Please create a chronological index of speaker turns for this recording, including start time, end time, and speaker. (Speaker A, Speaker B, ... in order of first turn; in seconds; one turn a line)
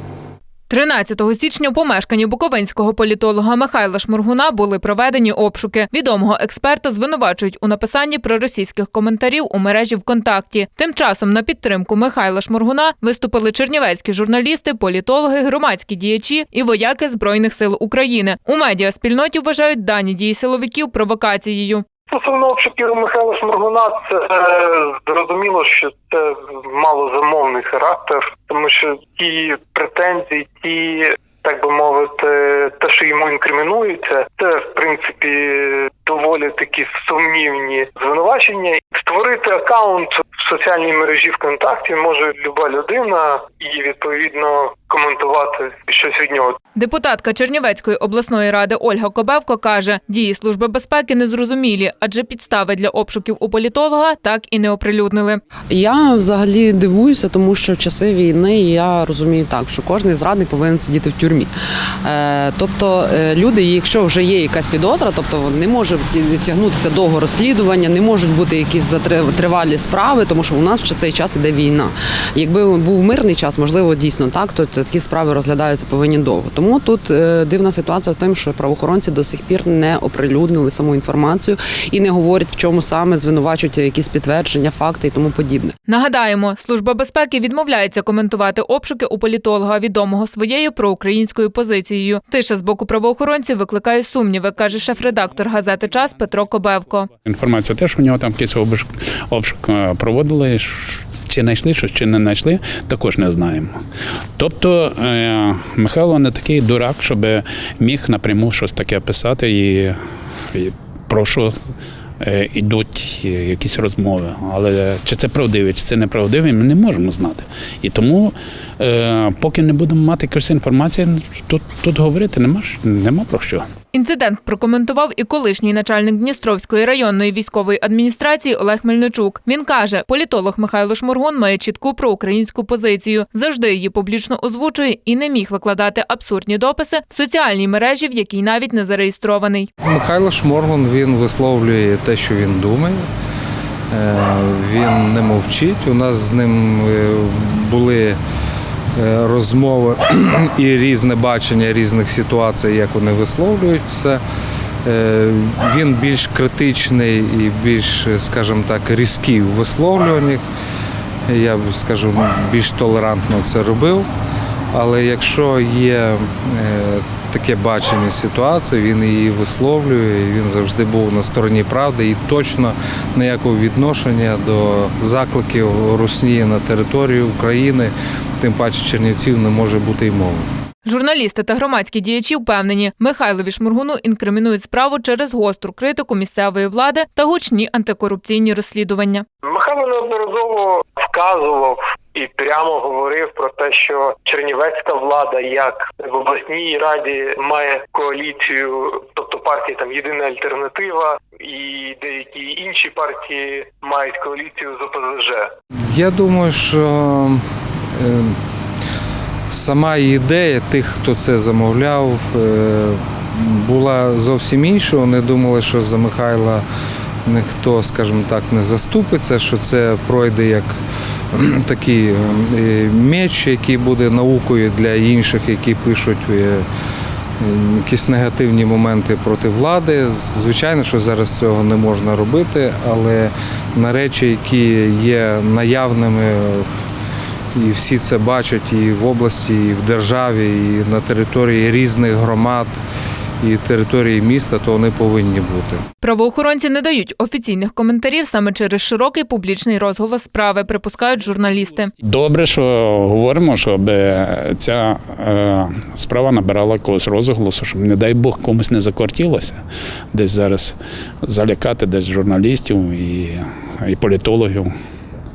Speaker A: 0.7-21.8
Speaker B: 22.1-46.6
Speaker A: 46.8-55.4
Speaker C: 55.7-61.5
Speaker C: 62.0-85.7
Speaker A: 85.8-97.1
Speaker D: 97.2-103.7
Speaker D: 104.4-110.0
Speaker D: 110.5-111.5
Speaker D: 112.2-123.6
Speaker A: 123.9-139.7
Speaker E: 139.8-143.0
Speaker E: 143.9-148.2
Speaker E: 148.9-154.2
Speaker E: 154.8-160.4
Speaker E: 161.3-164.1
Speaker E: 164.7-180.4
Speaker A: 180.8-189.2
Speaker B: 189.4-205.4
Speaker E: 205.9-207.4
Speaker E: 207.9-208.3
Speaker E: 209.5-216.6
Speaker E: 217.2-220.7
Speaker E: 221.3-226.6
Speaker E: 227.4-236.7
Speaker E: 237.5-242.7
Speaker E: 243.4-245.8
Speaker A: 246.0-251.9
Speaker D: 252.0-259.6
Speaker D: 260.1-264.7